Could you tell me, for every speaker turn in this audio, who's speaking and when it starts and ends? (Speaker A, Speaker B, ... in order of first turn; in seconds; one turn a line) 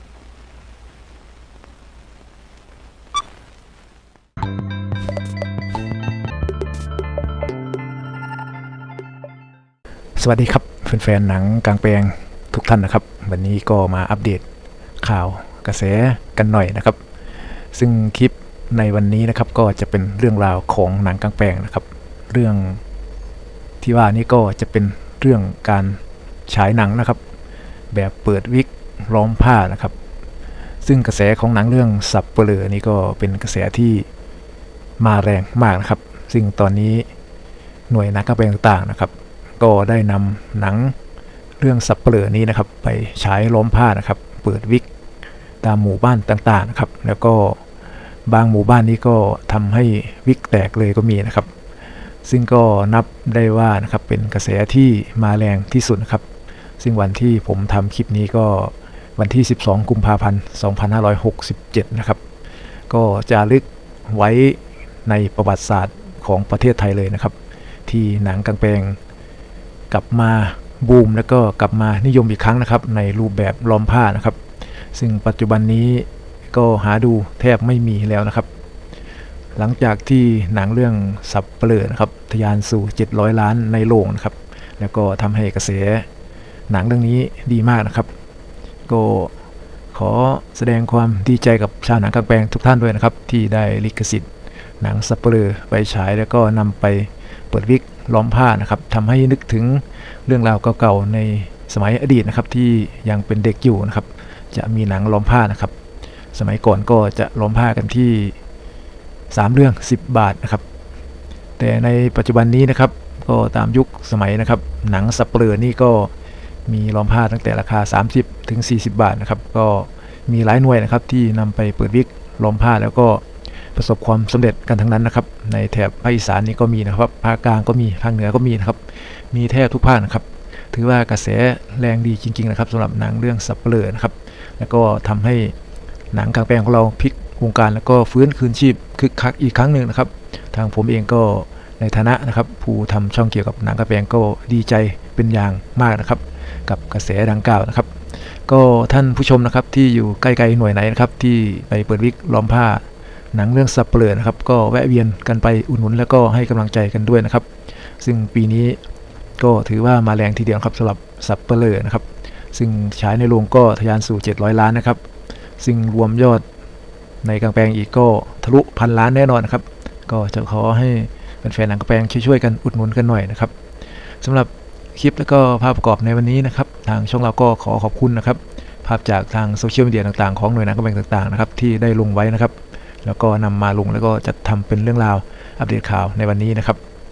Speaker A: 10.2-14.4
Speaker A: 15.0-17.0
Speaker A: 17.7-22.8
Speaker A: 23.8-27.2
Speaker A: 27.9-30.0
Speaker A: 30.8-34.1
Speaker A: 35.0-37.1
Speaker A: 37.9-41.0
Speaker A: 41.6-44.9
Speaker A: 45.6-47.6
Speaker A: 48.3-51.5
Speaker A: 52.2-56.2
Speaker A: 56.8-62.2
Speaker A: 62.9-67.3
Speaker A: 67.9-69.0
Speaker A: 69.9-74.4
Speaker A: 75.0-78.5
Speaker A: 79.6-86.1
Speaker A: 86.7-88.1
Speaker A: 88.9-89.3
Speaker A: 89.9-94.3
Speaker A: 94.8-105.7
Speaker A: 106.3-108.4
Speaker A: 109.3-110.6
Speaker A: 111.6-116.1
Speaker A: 116.7-135.5
Speaker A: 136.1-147.9
Speaker A: 148.5-157.5
Speaker A: 158.0-158.8
Speaker A: 159.4-165.0
Speaker A: 165.6-166.4
Speaker A: 167.2-173.5
Speaker A: 174.2-186.8